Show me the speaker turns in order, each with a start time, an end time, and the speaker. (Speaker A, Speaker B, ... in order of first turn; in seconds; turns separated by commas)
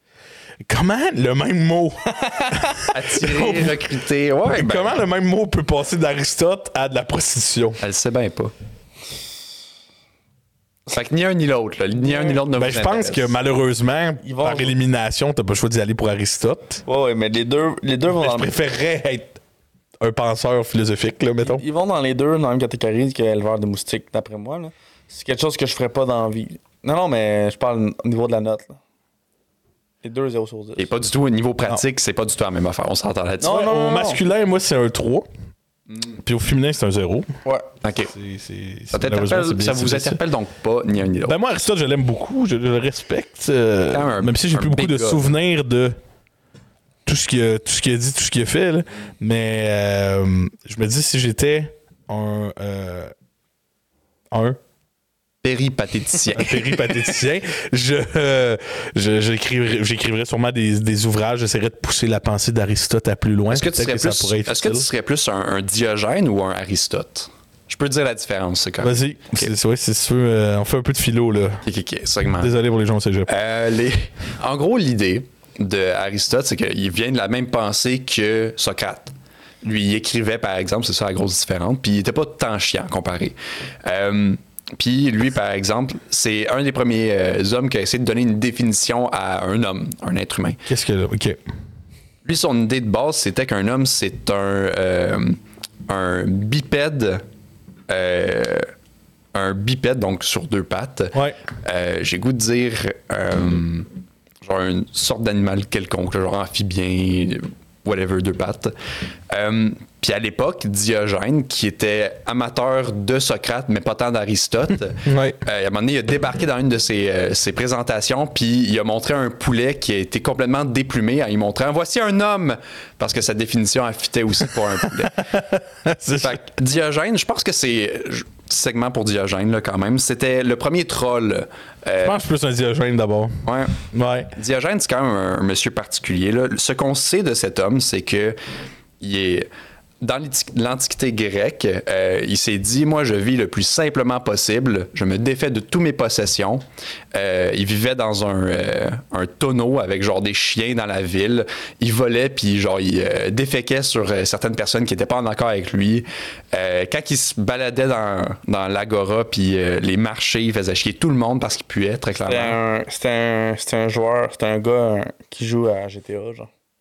Speaker A: 0.6-3.8, Speaker B: 2.2-2.6, Speaker C: 2.9-5.0, Speaker A: 4.5-7.8, Speaker C: 7.8-8.5, Speaker C: 10.9-13.3, Speaker B: 12.1-12.4, Speaker A: 12.5-16.8, Speaker B: 14.2-14.8, Speaker B: 16.9-18.5, Speaker A: 18.1-19.4, Speaker A: 20.0-21.6, Speaker B: 21.4-28.8, Speaker B: 30.0-30.9, Speaker C: 30.8-33.7, Speaker B: 33.4-34.2, Speaker A: 33.4-35.3, Speaker C: 35.9-36.1, Speaker A: 36.1-37.3, Speaker C: 37.8-38.1, Speaker A: 38.1-40.2, Speaker C: 38.9-41.4, Speaker A: 41.2-46.0, Speaker C: 43.9-45.2, Speaker A: 47.0-53.1, Speaker A: 54.3-54.6, Speaker C: 55.4-57.1, Speaker A: 56.3-64.9, Speaker C: 63.5-69.5, Speaker A: 68.8-71.6, Speaker C: 71.6-72.5, Speaker A: 72.4-73.3, Speaker C: 73.3-90.6, Speaker A: 90.7-91.4, Speaker C: 92.2-97.2, Speaker C: 97.9-98.7, Speaker C: 99.3-103.9, Speaker C: 104.4-108.7, Speaker C: 109.3-125.3, Speaker A: 115.0-115.4, Speaker A: 124.8-126.4, Speaker C: 126.2-132.2, Speaker A: 132.0-134.3, Speaker C: 133.4-138.4, Speaker C: 139.0-139.5, Speaker C: 140.0-162.6, Speaker B: 162.2-166.5